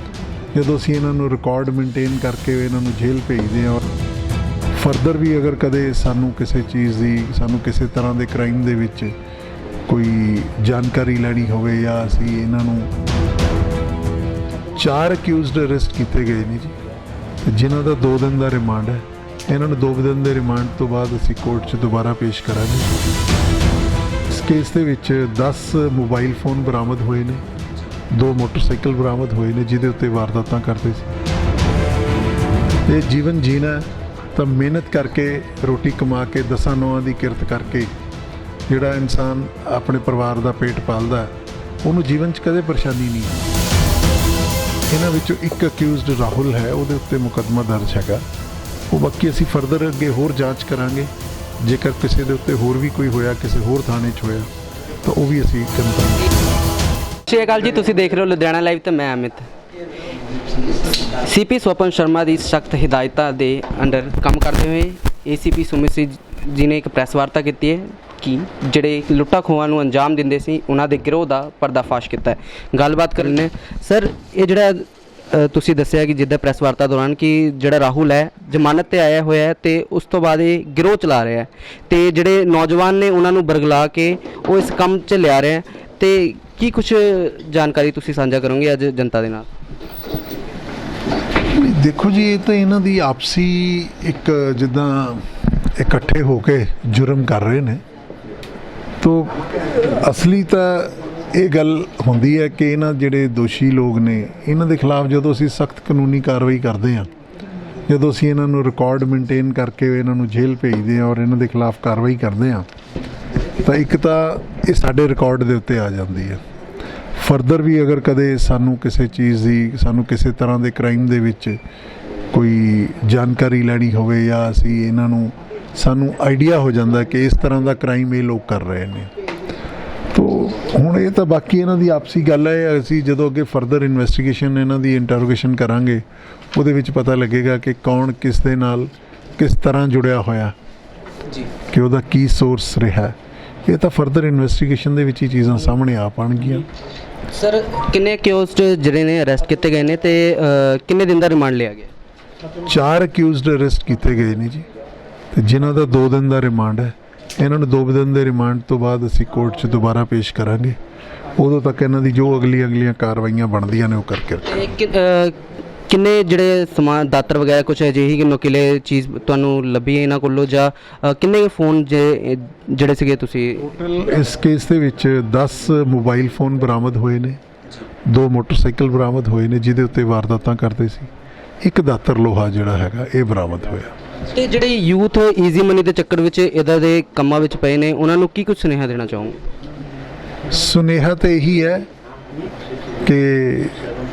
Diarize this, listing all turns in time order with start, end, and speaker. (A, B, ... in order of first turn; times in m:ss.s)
0:00.5-0:03.9 A
0:04.8-0:09.1 A
0:09.9-0:12.9 A
0:14.7-0:16.8 A
0:17.4-0:22.9 A
0:24.3-0:27.4 A
0:28.1-0:31.1 A
0:32.9-0:37.9 A
0:38.7-0:43.5 A
0:44.9-0:48.3 A
0:48.9-0:54.5 A
0:55.0-0:56.3 A
0:57.3-0:59.5 B
1:01.0-1:29.5 B
1:31.4-1:37.8 A
1:39.0-1:47.1 A
1:47.9-1:52.7 A
1:53.6-1:56.4 A
1:57.2-2:01.6 A
2:02.3-2:09.1 A
2:10.1-2:20.5 A
2:21.7-2:26.7 A
2:27.3-2:31.9 B
2:32.6-2:34.7 A
2:35.3-2:40.8 A
2:41.4-2:44.6 A
2:44.5-2:45.4 B
2:45.9-2:53.6 B
2:53.6-2:57.4 A
2:58.1-3:01.1 A
3:01.6-3:04.0 A
3:04.3-3:09.4 B
3:10.5-3:11.9 A
3:13.0-3:13.8 A